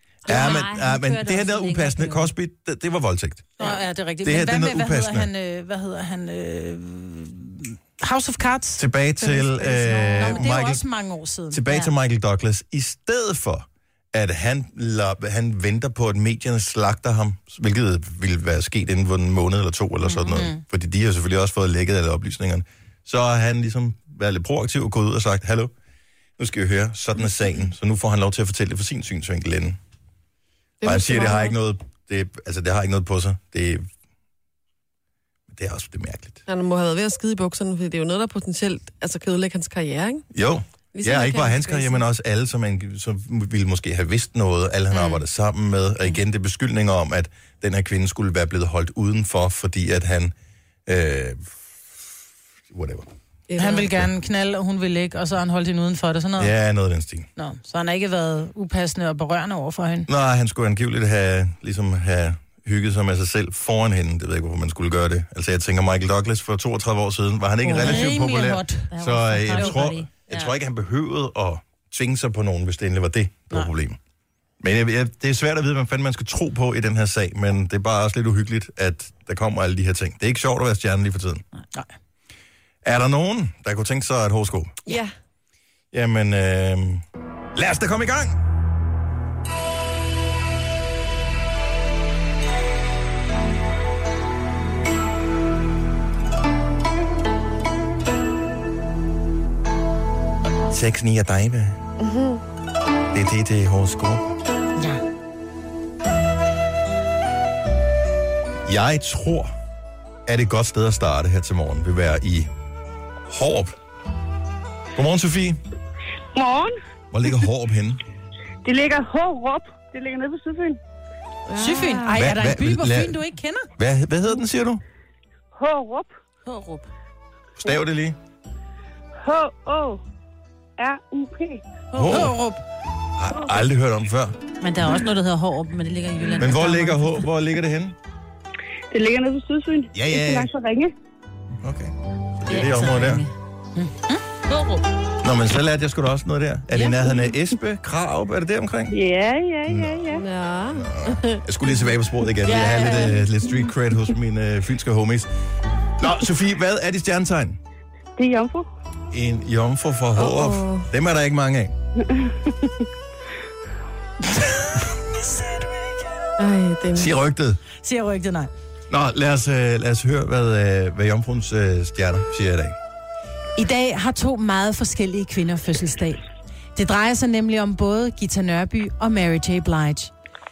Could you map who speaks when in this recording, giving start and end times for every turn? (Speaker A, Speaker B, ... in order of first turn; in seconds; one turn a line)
Speaker A: 0.2-3.5
Speaker B: 0.2-2.3
Speaker C: 3.6-8.8
Speaker A: 4.2-5.3
Speaker A: 8.8-10.8
Speaker D: 9.2-10.4
Speaker C: 10.1-11.6
Speaker A: 11.5-25.7
Speaker C: 20.1-20.6
Speaker A: 26.4-29.8
Speaker D: 30.8-31.5
Speaker A: 30.8-33.9
Speaker A: 35.5-36.4
Speaker D: 36.5-40.3
Speaker A: 40.3-50.3
Speaker D: 40.9-42.0
Speaker A: 50.9-52.0
Speaker A: 52.7-53.1
Speaker D: 53.5-53.9
Speaker C: 53.6-56.5
Speaker A: 56.4-57.3
Speaker C: 57.4-60.1
Speaker A: 60.0-74.0
Speaker C: 67.6-68.9
Speaker B: 67.8-68.1
Speaker B: 68.9-70.4
Speaker A: 74.6-81.4
Speaker A: 82.8-84.8
Speaker D: 84.9-85.1
Speaker A: 85.9-87.0
Speaker A: 87.5-88.4
Speaker A: 100.7-101.8
Speaker D: 102.0-102.4
Speaker A: 103.1-104.3
Speaker A: 108.7-109.5
Speaker A: 110.2-112.5
Speaker A: 113.3-113.8
Speaker A: 114.9-115.6
Speaker E: 116.3-116.8
Speaker A: 117.1-118.0
Speaker E: 118.6-120.8
Speaker D: 121.5-122.2
Speaker C: 121.6-123.7
Speaker A: 122.1-123.2
Speaker A: 123.8-124.8
Speaker E: 125.5-126.1
Speaker C: 126.4-126.9
Speaker A: 127.6-128.2
Speaker E: 129.2-130.0
Speaker E: 130.8-131.6
Speaker C: 131.9-132.6
Speaker A: 131.9-132.3
Speaker A: 133.2-134.3
Speaker B: 134.6-137.2
Speaker A: 136.4-137.9
Speaker E: 138.9-140.9
Speaker A: 139.9-140.5
Speaker A: 141.6-143.2
Speaker B: 142.5-143.3
Speaker C: 143.8-144.2
Speaker A: 145.2-148.9
Speaker E: 148.9-150.2
Speaker A: 149.6-150.1
Speaker D: 150.1-151.4
Speaker A: 150.7-155.3
Speaker E: 152.5-153.1
Speaker A: 156.0-157.6
Speaker E: 158.2-158.7
Speaker A: 159.1-161.7
Speaker D: 160.2-160.9
Speaker E: 162.1-162.3
Speaker D: 166.4-167.1
Speaker A: 166.9-167.6
Speaker C: 167.8-168.5
Speaker A: 168.9-172.8
Speaker C: 173.6-176.2
Speaker C: 176.8-180.1